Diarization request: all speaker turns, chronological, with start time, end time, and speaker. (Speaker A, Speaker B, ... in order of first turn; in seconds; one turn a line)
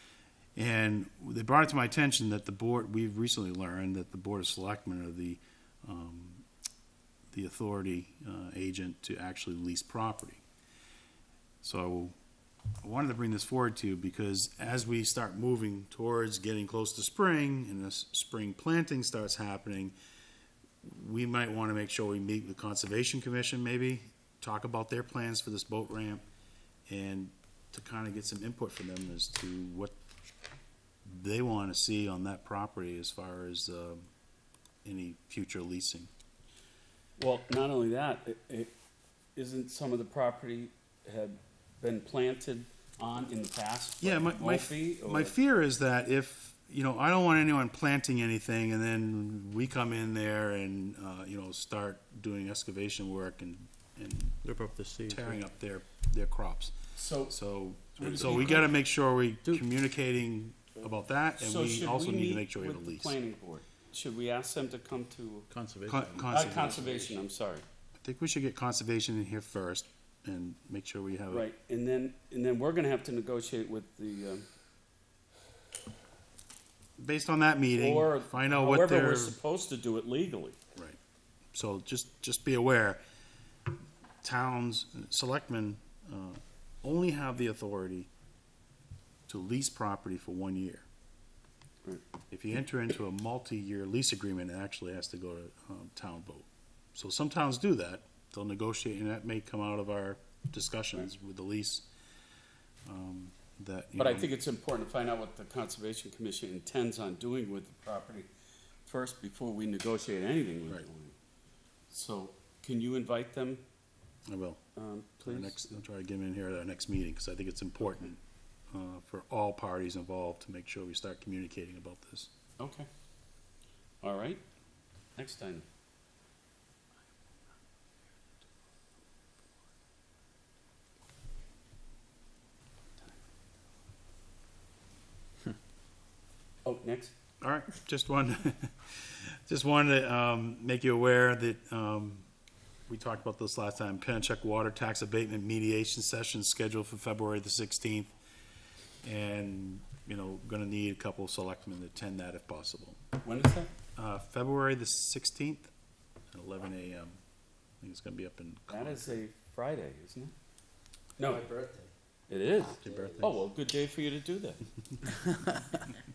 Speaker A: 0.6-6.5
Speaker A: 7.3-10.4
Speaker A: 11.6-12.1
Speaker A: 12.8-19.9
Speaker A: 20.8-26.2
Speaker A: 26.9-29.9
Speaker A: 31.0-34.0
Speaker A: 34.8-36.1
Speaker B: 37.2-38.7
Speaker B: 39.4-45.3
Speaker A: 44.0-54.4
Speaker C: 54.4-55.4
Speaker A: 55.1-56.8
Speaker B: 56.9-57.3
Speaker A: 57.3-63.1
Speaker B: 58.0-58.7
Speaker B: 61.4-65.5
Speaker C: 65.5-67.1
Speaker A: 65.9-66.9
Speaker B: 66.3-67.6
Speaker A: 68.0-71.4
Speaker B: 71.3-74.5
Speaker A: 77.0-79.3
Speaker B: 77.7-80.6
Speaker A: 81.5-83.0
Speaker A: 84.2-88.1
Speaker A: 89.3-90.8
Speaker A: 92.3-101.9
Speaker A: 102.8-104.3
Speaker B: 104.0-108.3
Speaker B: 108.8-111.1
Speaker B: 111.9-113.6
Speaker A: 114.3-114.6
Speaker B: 114.8-115.8
Speaker A: 115.2-122.3
Speaker B: 122.6-122.9
Speaker B: 124.0-124.4
Speaker B: 125.2-125.7
Speaker B: 136.6-137.1
Speaker A: 137.4-142.3
Speaker A: 142.9-148.1
Speaker A: 149.0-153.0
Speaker B: 153.2-153.7
Speaker A: 153.9-155.7
Speaker A: 156.3-157.2
Speaker A: 157.8-159.2
Speaker B: 158.7-160.3
Speaker B: 161.2-161.4
Speaker C: 161.2-161.9
Speaker B: 162.3-164.6
Speaker C: 162.7-163.4
Speaker A: 162.8-163.2
Speaker C: 165.2-165.9